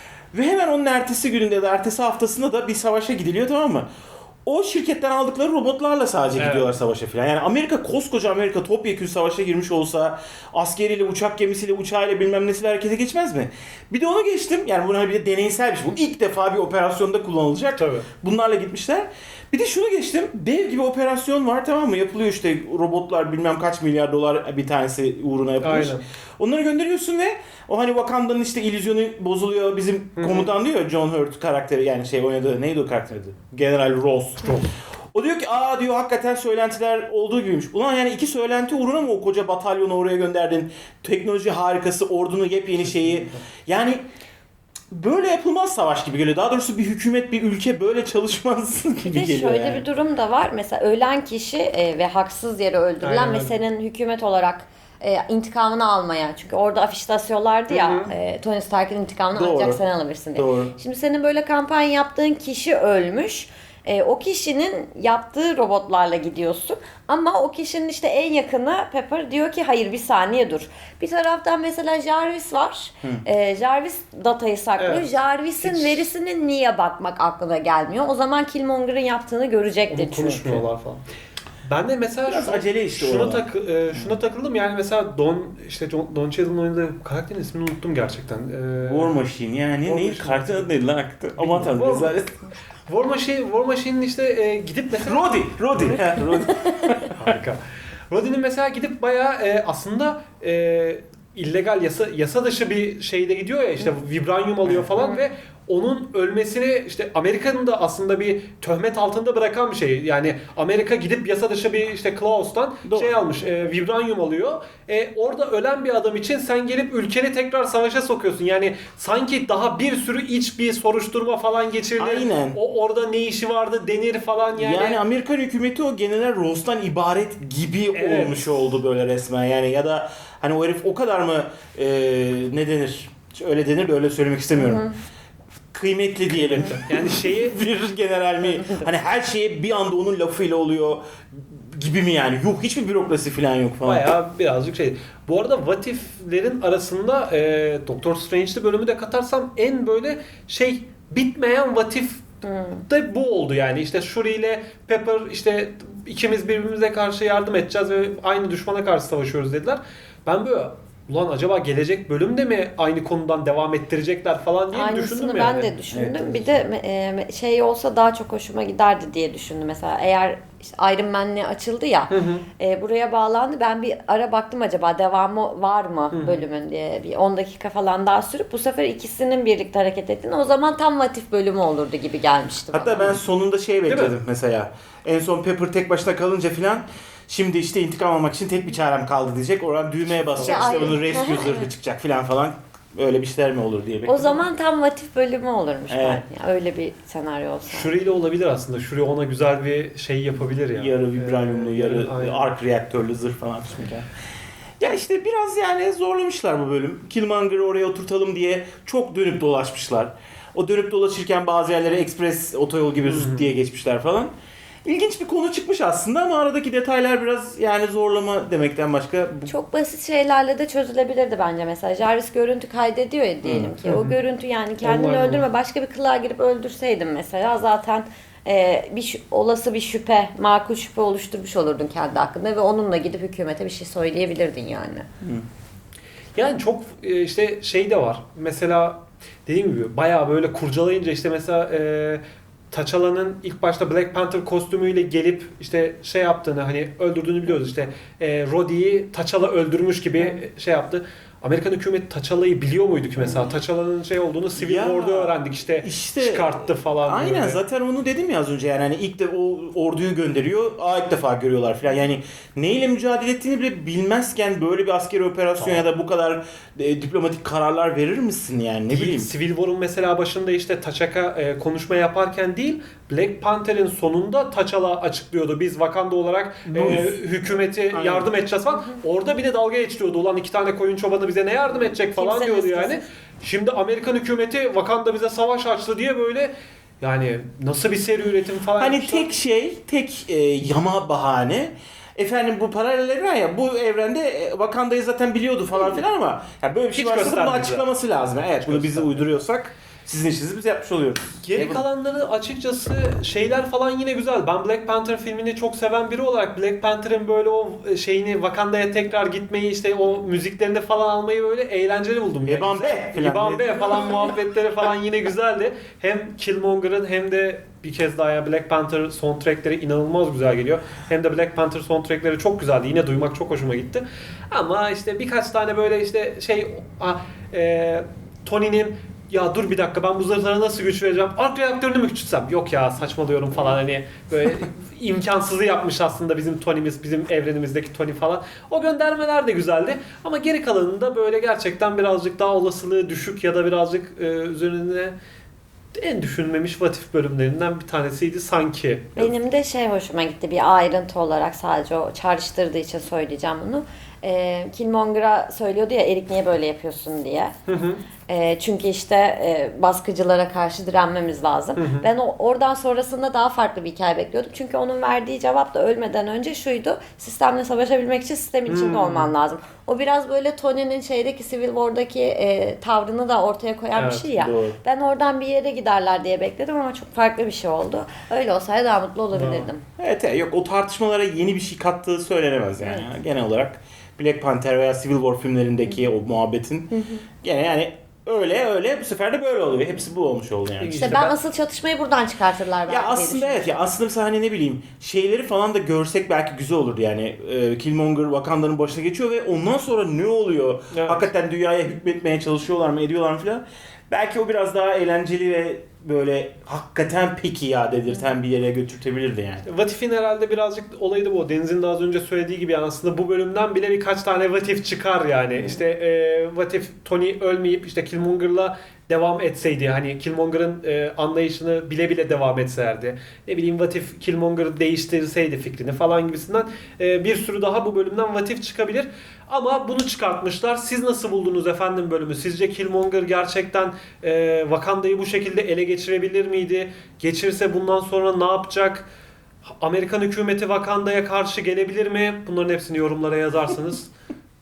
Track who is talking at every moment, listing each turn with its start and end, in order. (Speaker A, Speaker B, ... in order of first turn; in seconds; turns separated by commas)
Speaker A: 0.3-3.9, Speaker A: 4.5-34.6, Speaker B: 6.4-6.7, Speaker B: 17.8-18.1, Speaker B: 25.6-26.0, Speaker B: 30.2-30.5, Speaker B: 34.4-34.7, Speaker A: 35.1-44.0, Speaker B: 42.9-43.4, Speaker A: 44.9-49.9, Speaker C: 49.0-80.6, Speaker B: 53.0-53.5, Speaker B: 57.7-58.1, Speaker A: 59.3-59.8, Speaker A: 60.4-60.7, Speaker B: 74.8-76.1, Speaker B: 79.9-81.0, Speaker B: 81.6-89.2, Speaker A: 82.3-83.5, Speaker A: 88.8-92.4, Speaker B: 89.8-90.8, Speaker B: 91.4-92.2, Speaker B: 92.9-96.2, Speaker A: 95.0-97.3, Speaker B: 97.2-125.0, Speaker C: 105.0-105.3, Speaker A: 112.9-113.2, Speaker A: 122.0-122.6, Speaker A: 124.5-134.9, Speaker B: 127.9-128.6, Speaker C: 134.6-135.0, Speaker A: 135.7-144.1, Speaker B: 136.4-137.6, Speaker B: 143.8-152.3, Speaker C: 152.4-152.8, Speaker B: 152.9-165.8, Speaker C: 164.7-183.2, Speaker A: 165.9-166.6, Speaker B: 172.1-172.5, Speaker B: 176.1-176.4, Speaker A: 182.7-194.2, Speaker B: 183.9-184.2, Speaker B: 190.2-191.0, Speaker C: 190.4-191.7, Speaker C: 194.1-197.9, Speaker A: 195.9-196.2, Speaker B: 197.7-202.5, Speaker A: 200.8-204.1, Speaker A: 204.8-214.3, Speaker B: 213.1-213.5, Speaker A: 214.8-219.5, Speaker C: 219.5-235.1, Speaker A: 223.4-223.8, Speaker B: 223.8-224.2, Speaker B: 224.8-225.5, Speaker B: 236.3-257.6, Speaker C: 253.2-253.5, Speaker A: 254.6-256.5, Speaker A: 257.1-269.3, Speaker B: 265.6-265.8, Speaker B: 268.9-289.4, Speaker A: 276.7-277.1, Speaker A: 277.9-278.3, Speaker C: 281.7-283.0, Speaker A: 288.8-301.8, Speaker B: 296.9-297.9, Speaker B: 298.6-299.3, Speaker B: 301.4-345.1, Speaker A: 312.4-313.9, Speaker B: 345.9-349.3, Speaker C: 349.2-357.6, Speaker B: 357.7-358.0, Speaker C: 358.3-379.8, Speaker B: 361.8-362.1, Speaker B: 368.7-369.3, Speaker B: 373.9-374.3, Speaker A: 374.4-374.8, Speaker B: 379.3-379.7, Speaker A: 380.0-386.9, Speaker C: 382.8-383.1, Speaker C: 386.9-387.2, Speaker A: 387.4-391.1, Speaker B: 390.8-391.4, Speaker C: 391.0-393.8, Speaker A: 392.9-409.6, Speaker B: 400.9-401.3, Speaker B: 409.7-439.1, Speaker B: 439.8-444.1